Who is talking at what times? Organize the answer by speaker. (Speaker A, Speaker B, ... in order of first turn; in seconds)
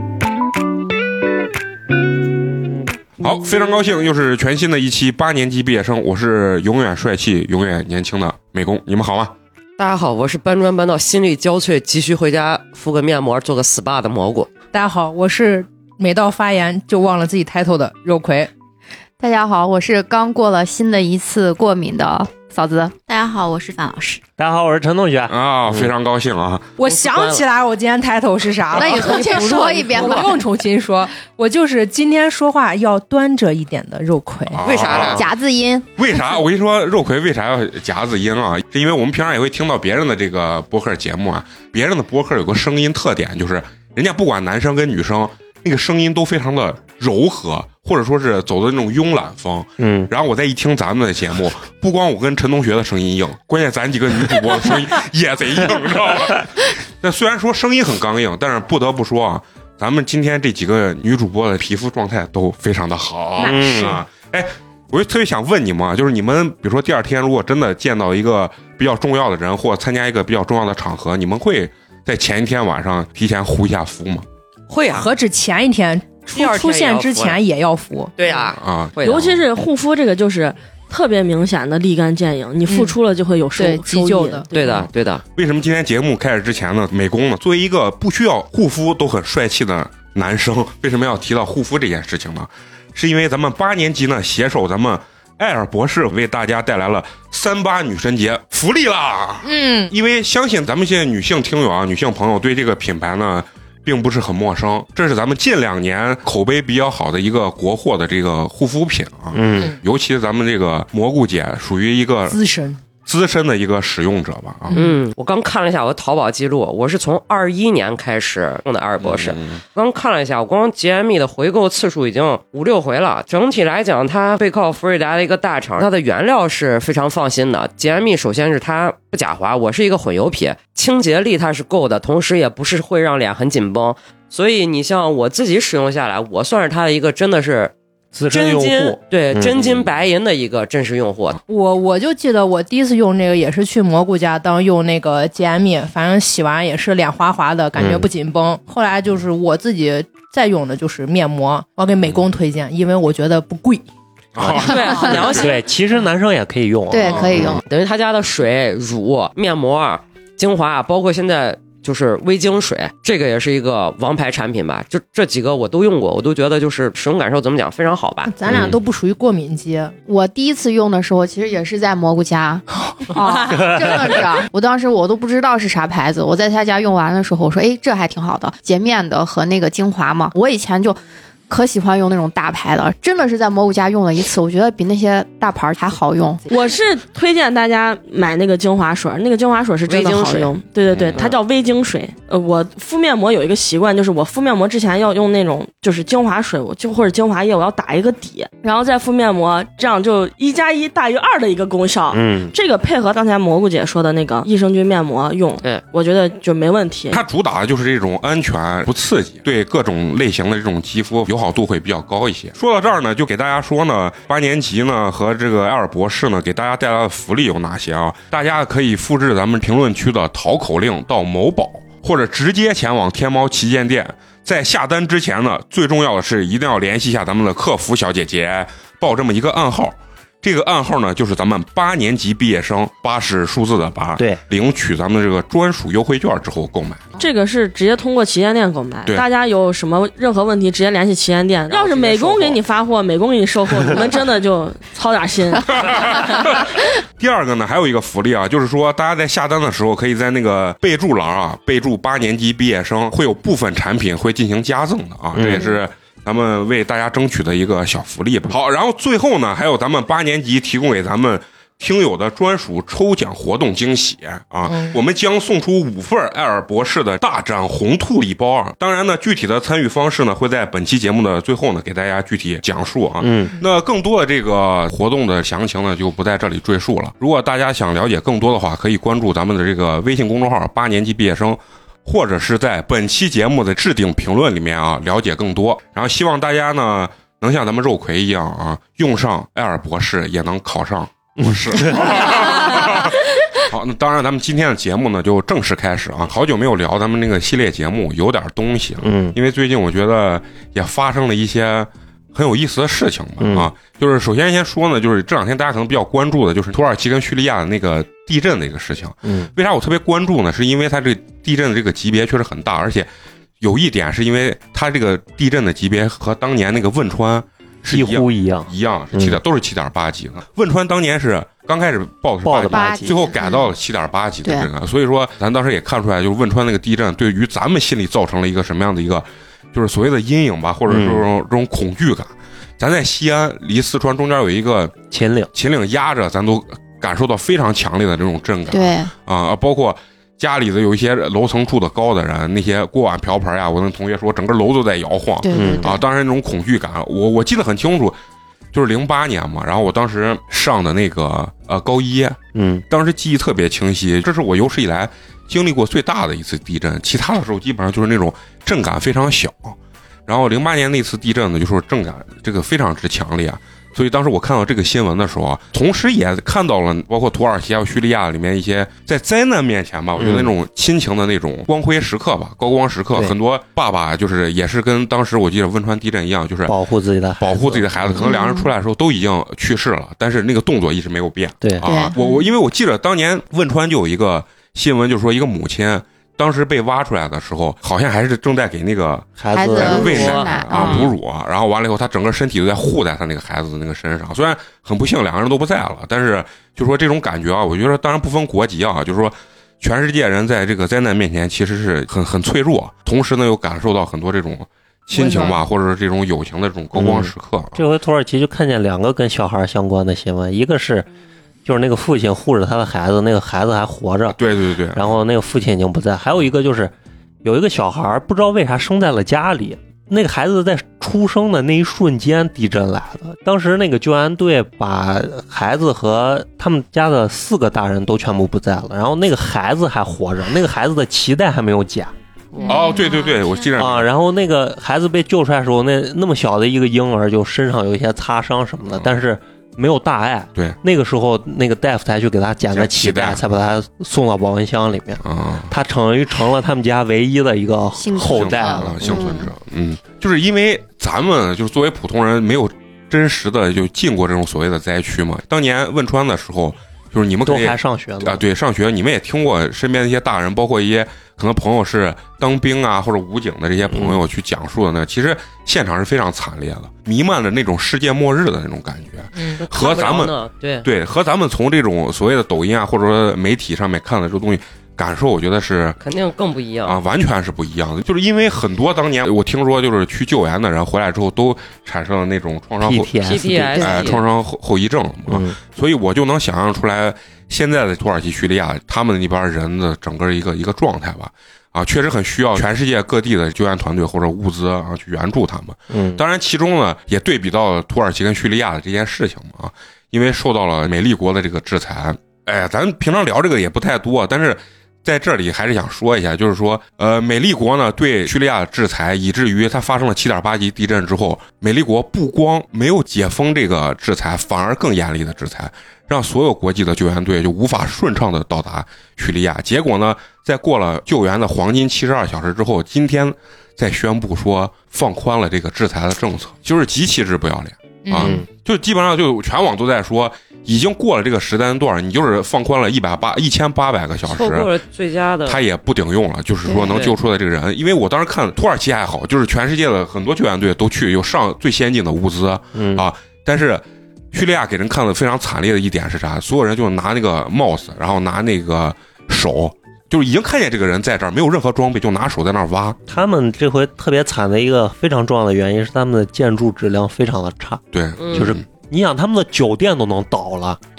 Speaker A: 3.2-9.3, 25.3-26.7, 34.5-35.3, 36.0-74.3, 78.5-79.0, 85.4-112.4, 113.0-114.8, 119.0-119.6, 154.4-155.1, 190.9-191.2, 207.1-237.1, 245.7-313.1, 313.6-335.0, 335.5-348.2, 348.7-376.8, 377.4-407.8, 414.3-415.1, 432.6-434.1, 442.7-443.4, 445.2-445.7, 448.2-476.0, 476.8-483.1, 483.6-534.7, 535.5-553.0, 557.9-558.6
Speaker B: 9.8-14.5, 26.9-27.4, 28.8-29.8, 34.6-35.2, 74.7-75.1, 76.3-77.4, 78.2-79.4, 84.5-85.2, 114.7-137.7, 138.3-141.4, 154.6-155.6, 157.7-168.3, 189.9-190.5, 241.7-242.6, 389.8-391.1, 469.6-470.9, 476.0-477.0, 483.2-484.2, 534.3-535.6, 536.8-537.2, 558.2-558.5
Speaker C: 14.7-18.5, 26.8-34.6, 74.9-78.1, 82.7-82.9, 83.6-84.5, 99.4-99.9, 112.3-112.8, 114.7-115.0, 141.5-153.8, 168.3-169.9, 173.1-174.1, 264.7-265.0, 405.1-405.6, 469.4-469.6, 528.0-528.4
Speaker D: 19.2-22.9, 28.8-30.4, 35.0-35.9, 156.9-157.6, 170.1-181.0, 181.5-186.5, 322.7-323.7, 338.7-339.1, 345.4-346.1, 378.2-378.7, 381.8-382.4, 389.5-391.1, 448.0-449.5
Speaker E: 23.1-24.2, 432.6-433.7
Speaker F: 24.4-25.3, 49.8-50.1, 63.4-64.0, 109.3-109.7, 138.1-139.9, 147.8-148.1, 154.4-157.6, 168.5-168.8, 202.1-202.6, 255.3-255.8, 273.2-273.6, 291.5-292.0, 299.0-299.4, 303.4-303.7, 317.9-319.4, 322.4-323.2, 330.9-331.3, 335.1-335.5, 345.5-346.0, 352.5-352.8, 370.2-370.5, 376.7-378.3, 381.6-381.9, 389.4-391.0, 406.9-411.1, 411.6-414.4, 414.9-432.1, 433.8-449.4, 457.5-458.4, 463.9-464.2, 482.8-484.2, 485.3-485.6, 495.9-496.2, 528.2-528.5, 542.8-543.1, 553.1-560.8
Speaker G: 79.0-84.8, 186.5-207.2, 237.2-246.5